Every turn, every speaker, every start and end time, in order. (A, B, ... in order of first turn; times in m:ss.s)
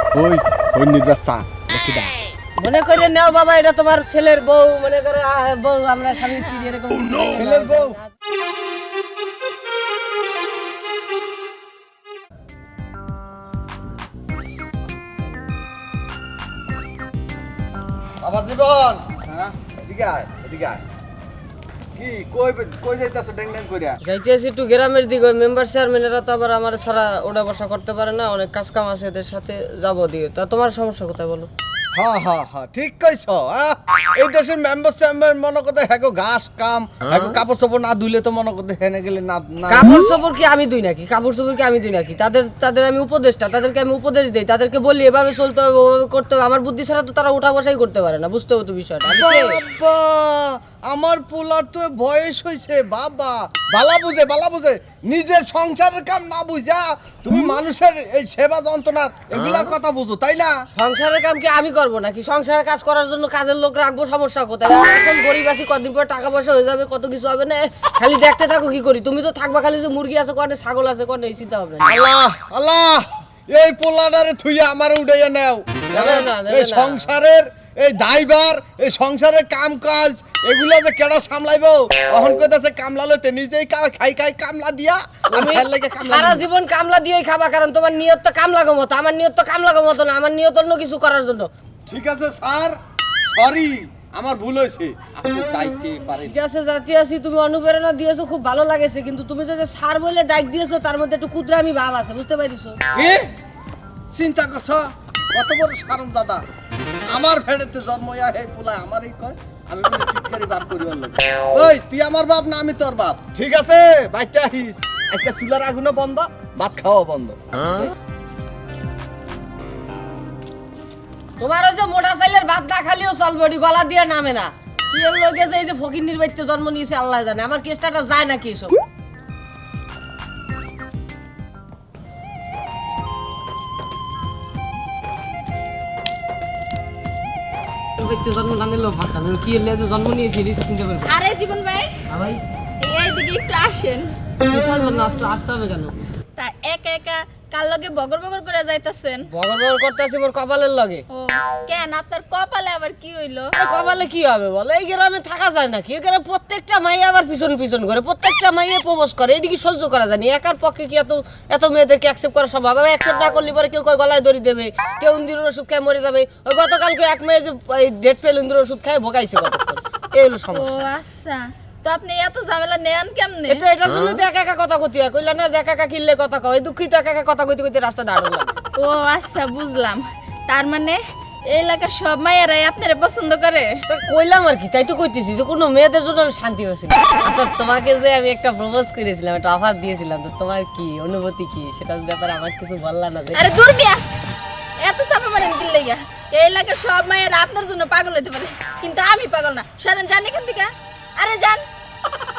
0:00.2-0:02.1 A
0:02.6-0:08.1 B
0:07.3-0:08.0 A
0:18.2-0:20.8 A
0:22.0-0:24.0 A
0:24.0-0:31.5 B
0:32.0-0:39.9 A
0:39.7-0:49.6 B
0:49.1-1:00.5 A
1:00.7-1:12.0 B
1:11.8-1:26.4 A
1:15.9-1:17.1 B
1:25.3-1:31.5 B
1:31.9-1:36.3 A
1:36.2-1:42.8 B
1:42.9-1:43.3 A
1:44.1-1:46.4 A
1:47.1-1:57.4 A
2:01.4-2:08.8 B
2:18.0-2:21.1 B
2:21.0-2:21.9 C
2:22.1-2:22.4 B
2:22.8-2:24.1 C
2:24.4-2:25.9 B
2:26.4-2:29.2 C
2:29.3-2:31.0 B
2:31.1-2:33.5 C
2:33.6-2:50.9 B
2:50.5-2:53.6 C
2:53.5-2:58.6 B
2:58.8-3:01.0 C
3:01.5-3:03.7 C
3:03.9-3:13.4 B
3:13.3-3:14.0 C
3:14.8-3:21.7 C